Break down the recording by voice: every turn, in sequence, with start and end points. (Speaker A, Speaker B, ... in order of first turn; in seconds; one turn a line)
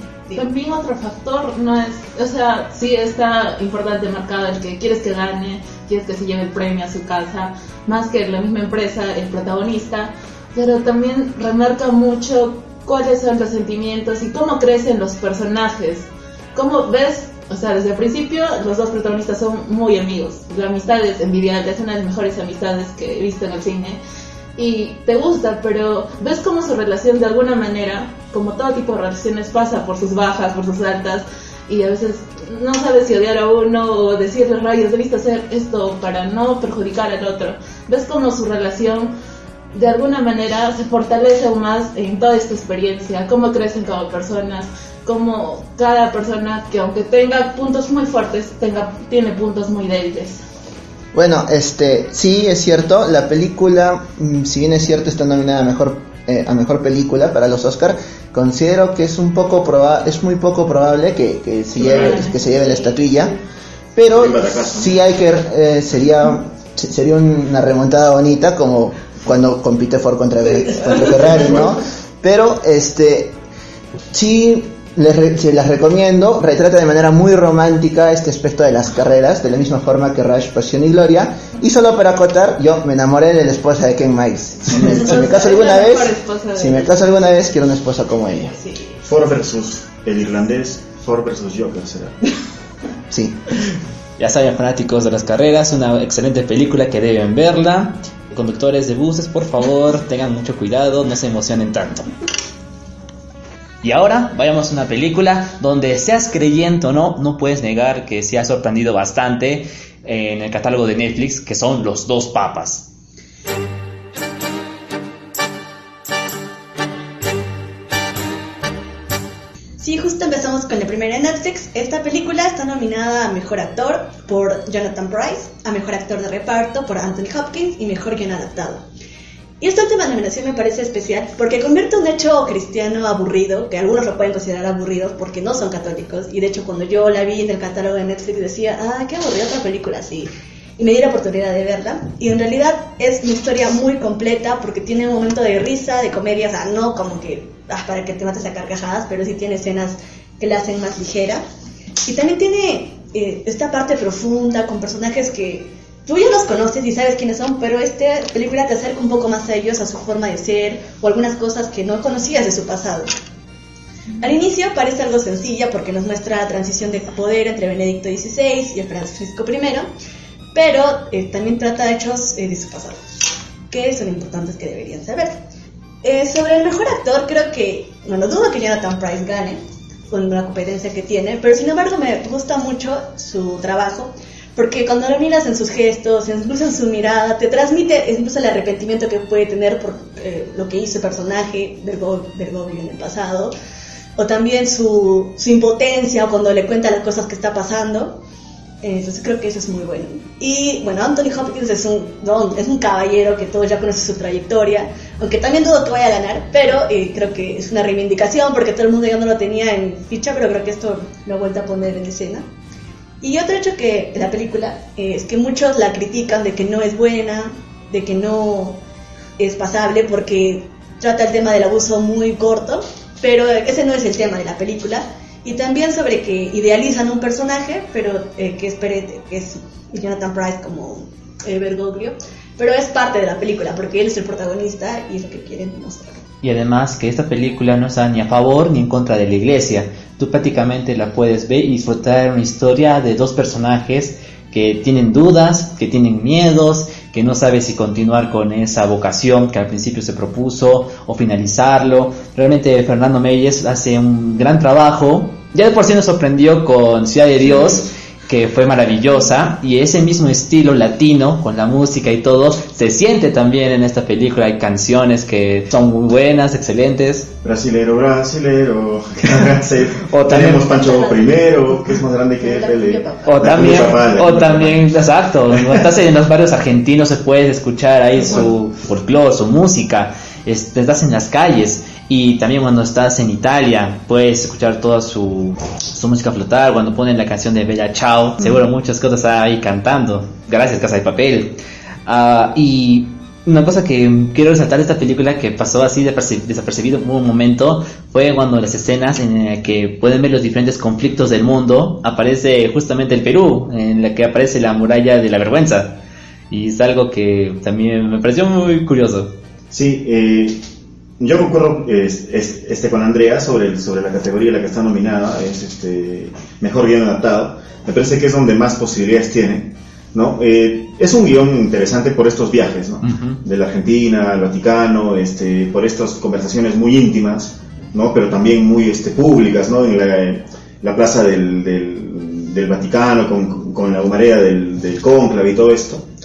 Speaker A: 0.3-24.0
Speaker A: 24.6-39.1
Speaker A: 39.7-50.4
Speaker B: 51.1-63.3
Speaker A: 61.7-63.3
Speaker B: 63.9-73.4
Speaker C: 64.1-65.0
Speaker C: 71.1-71.6
Speaker B: 74.1-88.6
Speaker A: 84.8-87.0
Speaker C: 89.0-92.2
Speaker B: 93.1-93.4
Speaker D: 94.2-102.0
Speaker D: 103.8-112.9
Speaker E: 119.8-128.8
Speaker E: 129.6-151.4
Speaker E: 152.0-163.1
Speaker E: 164.2-169.9
Speaker E: 170.5-173.0
Speaker E: 173.7-175.4
Speaker E: 176.0-193.5
Speaker E: 194.2-198.2
Speaker E: 198.8-212.5
Speaker E: 213.2-218.8
Speaker E: 219.4-236.2
Speaker D: 236.4-267.3
Speaker C: 257.4-257.9
Speaker C: 267.4-275.8
Speaker D: 270.0-270.7
Speaker E: 270.8-271.5
Speaker E: 272.4-273.3
Speaker D: 273.2-306.0
Speaker C: 278.1-278.5
Speaker D: 306.5-309.3
Speaker C: 309.7-310.6
Speaker C: 311.2-336.1
Speaker D: 323.0-323.4